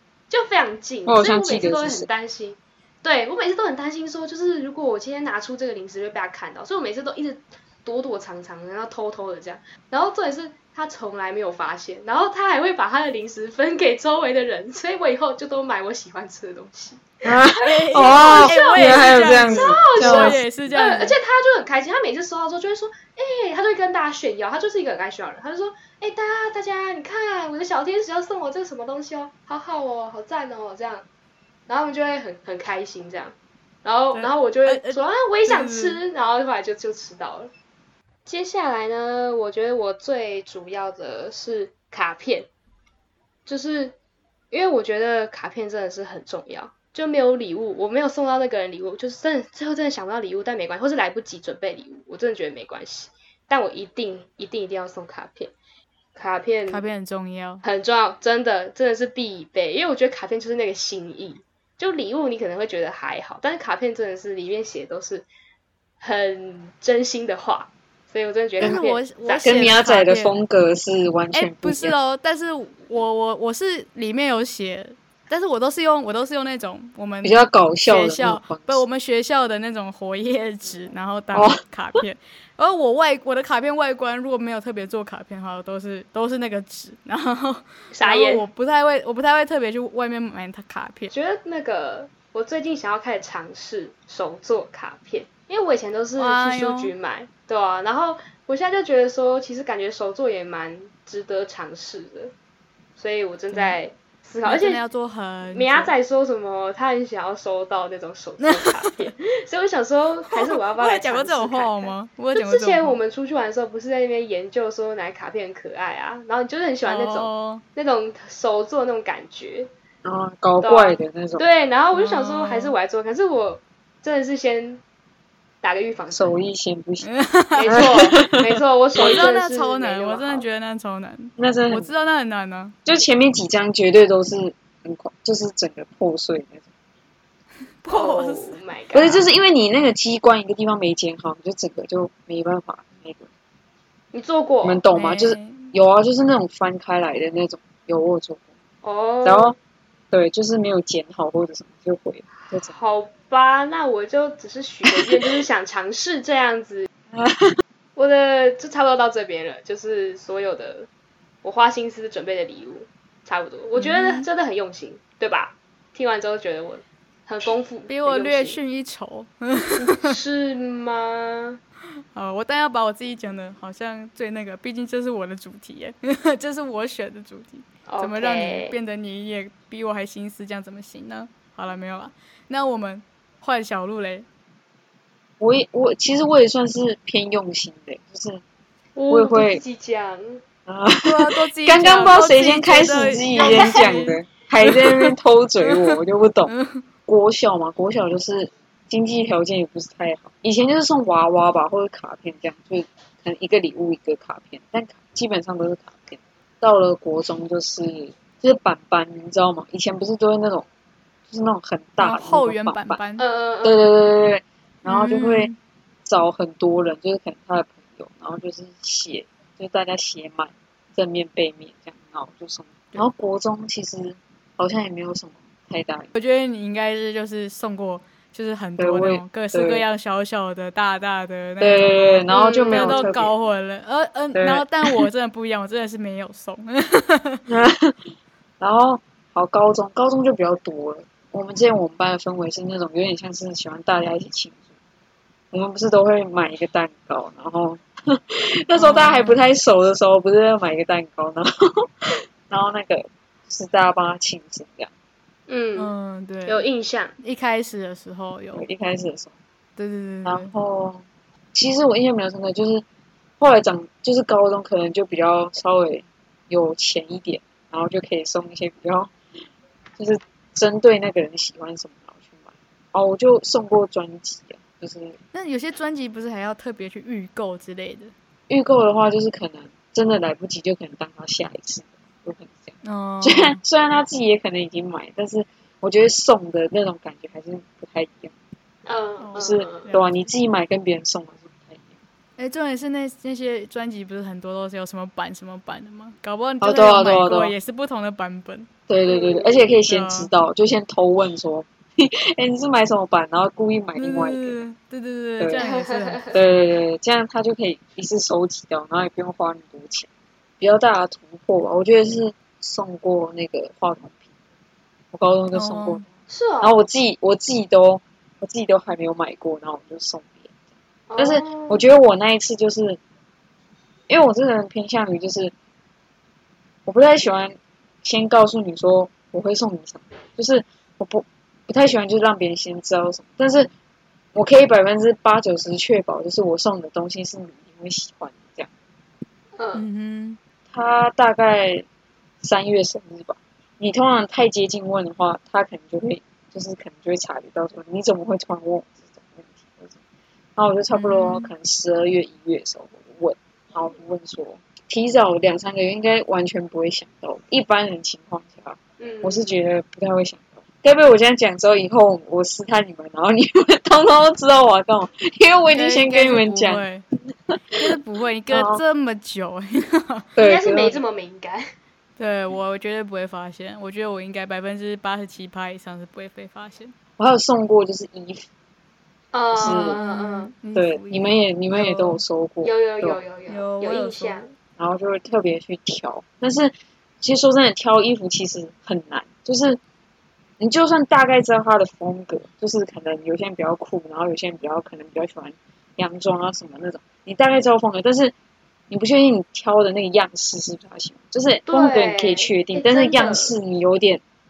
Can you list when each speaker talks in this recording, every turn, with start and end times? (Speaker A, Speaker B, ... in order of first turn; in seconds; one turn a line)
Speaker A: 0.3-17.2
Speaker B: 1.1-2.1
Speaker B: 17.2-20.4
Speaker C: 17.6-21.2
Speaker A: 17.9-31.1
Speaker A: 31.7-37.5
Speaker C: 34.1-36.0
Speaker A: 38.3-42.5
Speaker A: 43.5-44.0
Speaker A: 44.5-55.5
Speaker A: 56.2-56.9
Speaker C: 56.7-57.6
Speaker A: 57.6-65.3
Speaker A: 66.0-69.5
Speaker C: 68.6-70.3
Speaker B: 69.4-72.0
Speaker C: 71.3-91.1
Speaker B: 77.2-78.8
Speaker B: 81.3-82.0
Speaker A: 87.9-88.5
Speaker A: 91.1-102.3
Speaker C: 96.2-96.9
Speaker A: 103.0-104.8
Speaker C: 103.5-103.8
Speaker C: 104.4-105.9
Speaker A: 105.5-119.7
Speaker C: 108.4-109.1
Speaker C: 110.3-113.0
Speaker C: 116.9-117.6
Speaker B: 120.0-121.5
Speaker A: 120.6-124.8
Speaker C: 121.9-122.8
Speaker A: 125.6-126.3
Speaker B: 126.1-127.1
Speaker C: 127.0-128.1
Speaker A: 127.6-130.5
Speaker B: 127.7-129.2
Speaker C: 129.0-132.8
Speaker B: 131.4-131.9
Speaker B: 132.8-136.7
Speaker C: 137.8-138.6
Speaker A: 137.9-139.3
Speaker B: 138.9-143.3
Speaker A: 144.1-144.8
Speaker B: 144.6-148.4
Speaker C: 144.9-145.7
Speaker A: 148.8-149.6
Speaker B: 149.2-149.6
Speaker B: 150.1-152.8
Speaker A: 152.4-156.9
Speaker B: 154.9-155.2
Speaker B: 157.1-157.6
Speaker A: 158.0-160.9
Speaker A: 161.4-168.6
Speaker C: 163.8-164.3
Speaker C: 167.9-170.2
Speaker A: 169.7-171.6
Speaker C: 172.2-184.3
Speaker A: 177.9-178.8
Speaker B: 185.4-188.4
Speaker A: 189.0-190.4
Speaker B: 189.1-189.6
Speaker B: 190.7-196.5
Speaker C: 191.0-195.1
Speaker A: 193.4-194.0
Speaker C: 195.6-196.0
Speaker C: 196.5-196.8
Speaker B: 197.1-210.7
Speaker B: 211.3-213.0
Speaker C: 212.0-213.2
Speaker A: 213.2-213.9
Speaker B: 213.6-215.5
Speaker C: 214.9-215.6
Speaker B: 216.1-226.1
Speaker C: 226.2-237.4
Speaker B: 228.8-229.8
Speaker B: 231.6-233.3
Speaker A: 232.3-233.1
Speaker B: 234.3-235.0
Speaker B: 237.5-244.6
Speaker B: 245.5-254.9
Speaker C: 248.8-249.4
Speaker A: 255.5-255.9
Speaker C: 255.8-256.7
Speaker A: 256.5-257.1
Speaker C: 257.2-258.6
Speaker B: 258.5-259.3
Speaker C: 259.8-260.5
Speaker B: 260.2-261.0
Speaker B: 261.5-262.8
Speaker B: 263.4-269.1
Speaker B: 270.0-275.2
Speaker C: 275.3-278.1
Speaker B: 278.5-288.3
Speaker C: 282.8-283.6
Speaker A: 288.9-289.9
Speaker C: 289.2-290.3
Speaker B: 289.4-291.9
Speaker C: 292.4-298.7
Speaker B: 296.6-297.5
Speaker B: 298.9-304.6
Speaker A: 299.1-299.7
Speaker C: 299.9-300.3
Speaker C: 304.0-306.4
Speaker A: 305.5-306.4
Speaker B: 306.3-310.1
Speaker B: 310.6-314.2
Speaker B: 315.1-316.1
Speaker C: 315.5-316.1
Speaker A: 316.3-316.8
Speaker B: 316.6-320.5
Speaker A: 321.1-321.9
Speaker B: 321.2-323.0
Speaker B: 324.1-325.5
Speaker B: 326.9-333.7
Speaker B: 334.3-338.7
Speaker A: 339.6-339.9
Speaker C: 339.8-340.4
Speaker B: 340.7-341.9
Speaker B: 342.4-350.0
Speaker B: 350.6-367.9
Speaker C: 350.9-351.5
Speaker A: 359.0-359.6
Speaker C: 365.7-367.0
Speaker C: 367.8-370.3
Speaker B: 368.5-368.8
Speaker B: 370.4-371.0
Speaker A: 370.4-371.7
Speaker C: 372.2-376.9
Speaker B: 377.2-378.5
Speaker A: 379.3-380.5
Speaker B: 379.5-380.0
Speaker C: 379.6-382.2
Speaker B: 380.8-383.2
Speaker A: 382.6-384.5
Speaker C: 383.5-384.4
Speaker B: 384.8-389.8
Speaker B: 390.6-398.3
Speaker B: 398.9-404.2
Speaker A: 401.7-403.6